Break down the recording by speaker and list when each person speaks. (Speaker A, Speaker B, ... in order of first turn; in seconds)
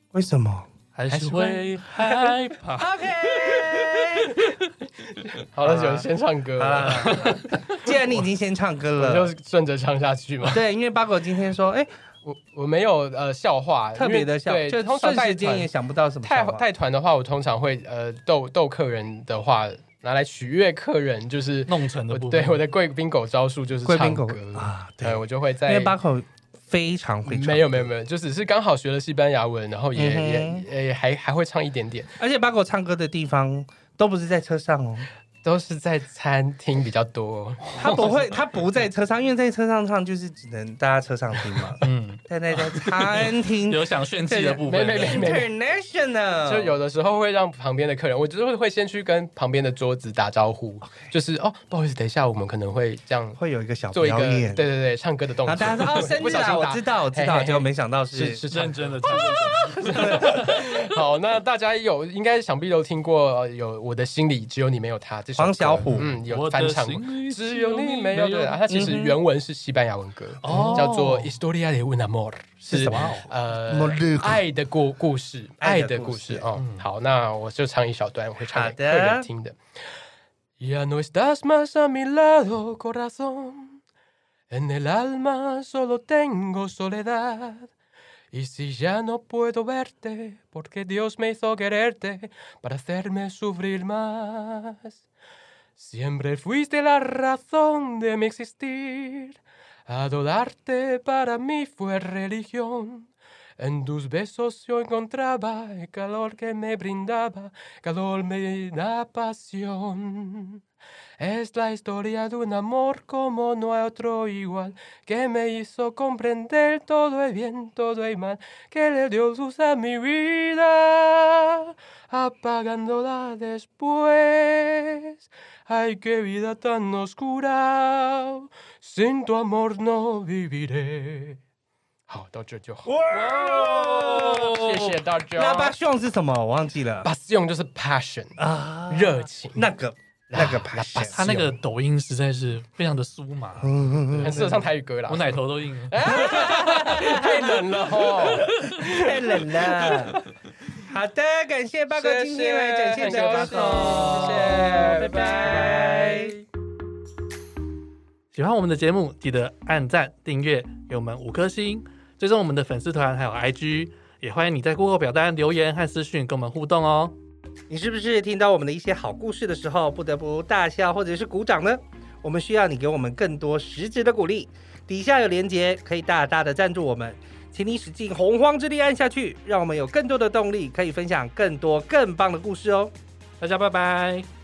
Speaker A: 0.1-0.7, 2.8-4.3, 5.6-9.3, 10.5-11.9, 13.9-16.6, 23.9-27.9, 29.9-30.7, 32.2-35.1, 37.8-46.8, 53.4-54.7, 55.4-58.4, 59.1-60.5, 65.4-66.1, 68.7-69.2, 70.5-71.2, 72.7-74.4, 75.6-76.5, 78.5-79.3, 132.8-137.1, 138.4-141.2, 143.6-144.6, 146.1-150.2, 150.8-156.3, 167.7-182.9
Speaker B: 0.9-2.9, 7.0-7.6, 21.7-22.6, 37.7-38.3, 41.8-45.3, 58.5-60.7, 65.9-68.7, 70.4-71.2, 72.8-73.3, 76.6-76.8, 141.1-144.5, 145.1-146.7, 153.1-154.4, 158.3-167.1, 183.4-184.3
Speaker C: 1.1-2.4, 5.2-8.2, 9.0-10.6, 12.2-15.7, 16.2-25.9, 27.3-32.2, 35.4-38.0, 44.7-45.5, 46.5-53.4, 53.9-79.6, 80.6-83.8, 84.5-87.7, 88.3-95.0, 95.8-110.6, 111.2-131.4, 132.1-135.8, 137.0-139.7, 140.3-141.6, 144.2-145.3, 145.9-150.2, 151.9-156.4